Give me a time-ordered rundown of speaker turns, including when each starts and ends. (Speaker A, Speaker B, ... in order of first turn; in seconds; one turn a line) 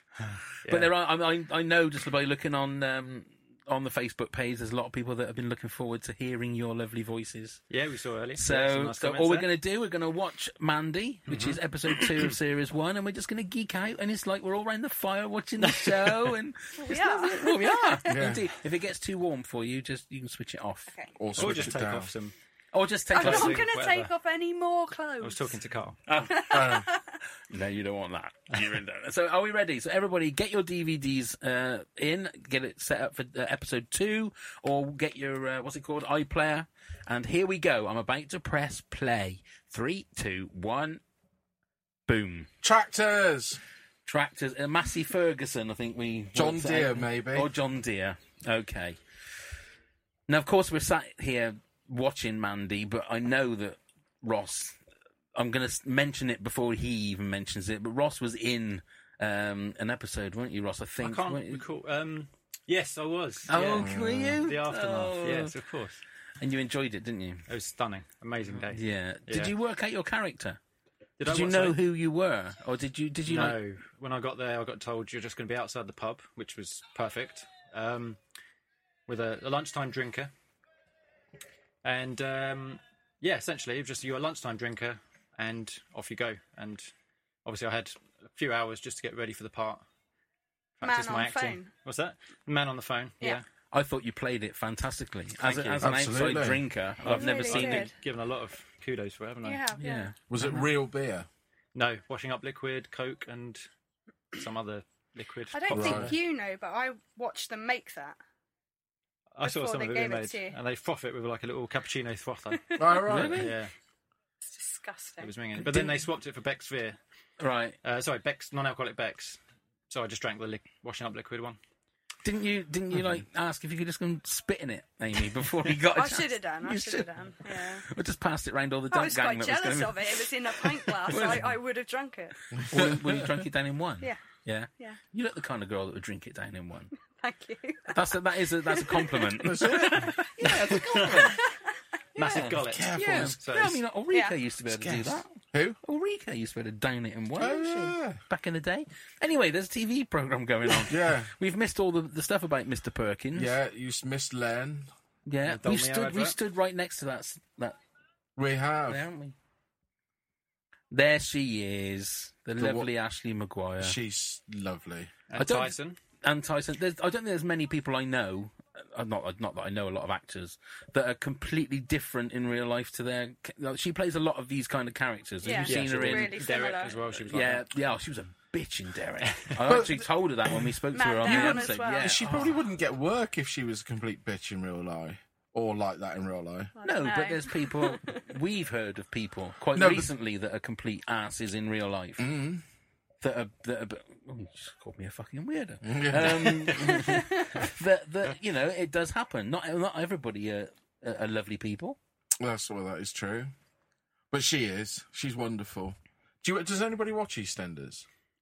Speaker A: 0.3-0.9
Speaker B: 0.7-7.6
Speaker A: 7.7-9.5
Speaker B: 8.3-21.7
Speaker A: 11.3-12.3
Speaker A: 15.6-16.3
Speaker C: 16.8-18.1
Speaker D: 18.1-18.5
Speaker D: 21.2-22.1
Speaker A: 21.4-22.3
Speaker B: 22.7-23.6
Speaker C: 23.1-25.6
Speaker A: 23.1-24.1
Speaker A: 25.2-26.0
Speaker B: 26.1-26.8
Speaker C: 26.3-27.2
Speaker D: 26.5-26.9
Speaker B: 27.5-41.0
Speaker B: 42.1-42.5
Speaker D: 42.6-43.6
Speaker B: 44.0-49.0
Speaker D: 46.3-47.5
Speaker B: 50.3-54.8
Speaker B: 55.3-61.6
Speaker A: 61.0-63.9
Speaker B: 63.5-65.5
Speaker D: 63.6-64.4
Speaker A: 64.4-66.0
Speaker B: 66.4-67.5
Speaker A: 67.5-69.5
Speaker B: 68.5-70.6
Speaker A: 71.2-71.8
Speaker B: 71.2-73.6
Speaker A: 73.2-78.2
Speaker A: 79.1-80.3
Speaker A: 81.8-86.9
Speaker A: 87.4-89.8
Speaker A: 90.8-93.4
Speaker C: 90.8-91.7
Speaker B: 93.7-97.9
Speaker A: 95.4-95.9
Speaker D: 95.8-96.7
Speaker A: 97.0-99.6
Speaker C: 97.0-97.9
Speaker C: 99.4-100.1
Speaker B: 99.8-100.6
Speaker D: 100.3-101.3
Speaker A: 101.7-103.7
Speaker A: 104.3-106.1
Speaker C: 105.5-108.2
Speaker D: 105.7-106.2
Speaker A: 109.3-113.7
Speaker C: 109.4-110.6
Speaker D: 112.8-113.5
Speaker B: 113.1-113.5
Speaker C: 114.5-115.3
Speaker A: 115.2-117.0
Speaker B: 115.6-115.9
Speaker B: 117.4-117.8
Speaker A: 117.8-121.6
Speaker B: 122.2-131.5
Speaker C: 125.9-127.8
Speaker C: 128.9-132.6
Speaker D: 132.6-133.2
Speaker B: 132.7-136.9
Speaker C: 137.1-141.6
Speaker B: 137.9-141.4
Speaker D: 139.4-140.2
Speaker A: 140.4-141.3
Speaker A: 142.1-143.8
Speaker B: 142.2-145.3
Speaker D: 142.6-143.4
Speaker C: 144.1-144.4
Speaker D: 144.7-145.8
Speaker B: 145.8-153.5
Speaker D: 147.3-148.2
Speaker D: 150.8-151.3
Speaker D: 153.3-154.9
Speaker B: 155.2-157.8
Speaker A: 155.4-156.4
Speaker D: 158.3-159.0
Speaker B: 158.9-159.3
Speaker B: 160.9-164.0
Speaker D: 162.6-162.9
Speaker D: 163.8-165.1
Speaker A: 165.3-166.0
Speaker B: 165.4-176.3
Speaker C: 175.4-177.2
Speaker A: 175.6-177.6
Speaker B: 177.3-182.6
Speaker D: 179.6-186.7
Speaker C: 180.9-182.2
Speaker C: 186.8-188.2
Speaker B: 186.8-192.3
Speaker D: 189.7-190.1
Speaker D: 192.2-192.6
Speaker B: 193.2-202.0
Speaker D: 195.8-197.1
Speaker C: 196.9-197.6
Speaker D: 202.4-203.5
Speaker D: 204.3-208.1